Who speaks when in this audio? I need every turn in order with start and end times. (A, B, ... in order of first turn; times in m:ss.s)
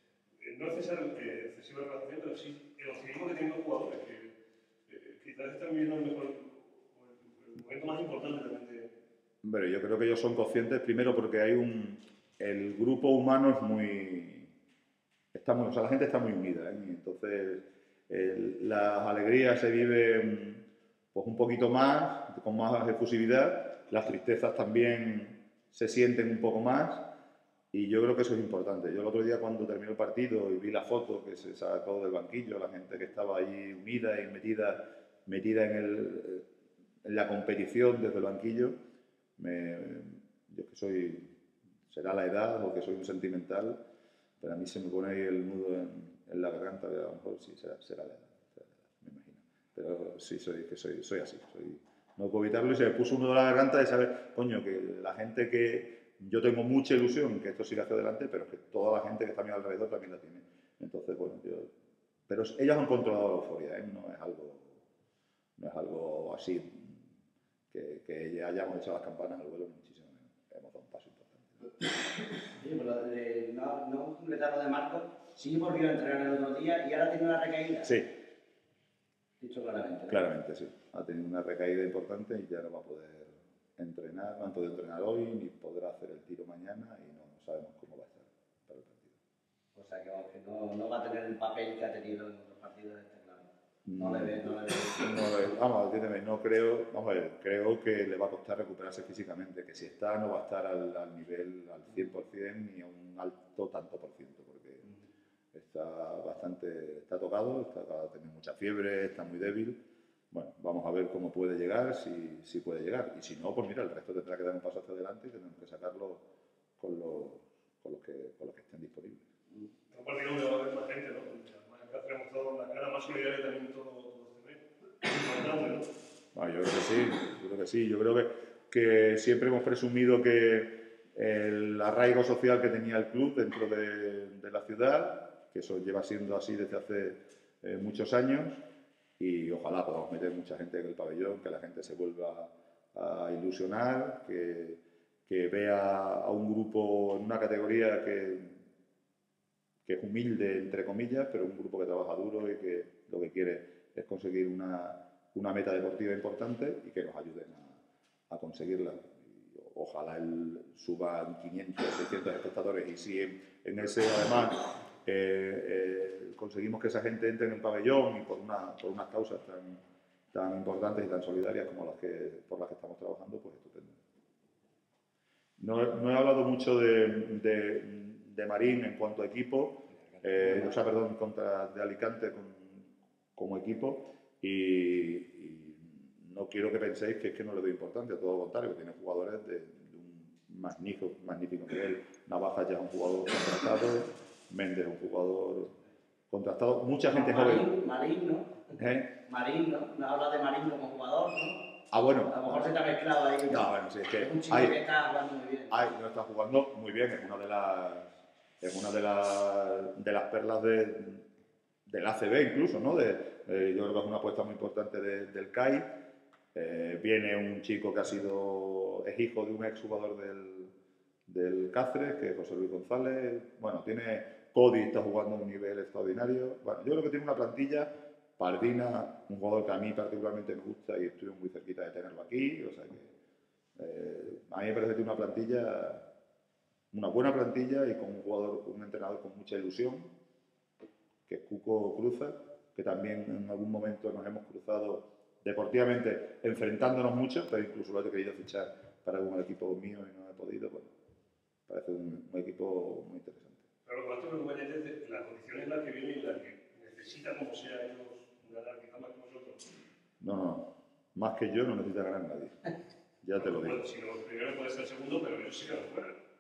0:00.4-0:04.3 A
0:04.9-0:08.9 A
0:09.4-0:14.5 B
0:15.3-0:27.1 B
0:27.7-0:36.5 B
0:37.0-0:38.8 B
0:39.4-0:41.3 B
0:41.9-0:43.8 B
0:44.4-1:01.7 B
1:02.3-1:04.8 B
1:05.6-1:07.1 B
1:07.7-1:11.7 B
1:12.5-1:18.0 C
1:17.9-1:18.1 B
1:19.4-1:20.2 C
1:20.1-1:29.2 B
1:29.8-1:35.2 C
1:33.9-1:44.9 B
1:45.5-1:49.8 B
1:50.3-1:56.2 B
1:56.8-1:59.2 B
1:59.9-2:05.9 A
2:06.3-2:18.6 B
2:19.2-2:28.6 B
2:29.8-2:49.8 B
2:50.3-2:54.0 B
2:55.6-3:15.8 B
3:16.3-3:17.7 B
3:17.1-3:21.8 C
3:18.8-3:19.1 B
3:21.9-3:22.7 B
3:22.3-3:25.8 C
3:23.5-3:24.8 B
3:25.7-3:31.2 B
3:31.9-3:35.9 B
3:36.5-3:40.7 B
3:41.3-3:53.1 B
3:53.8-3:56.1 B
3:56.9-4:00.1 B
4:01.3-4:10.9 B
4:11.7-4:13.6 B
4:13.9-4:19.7 A
4:20.2-4:23.9 B
4:23.4-4:26.2 A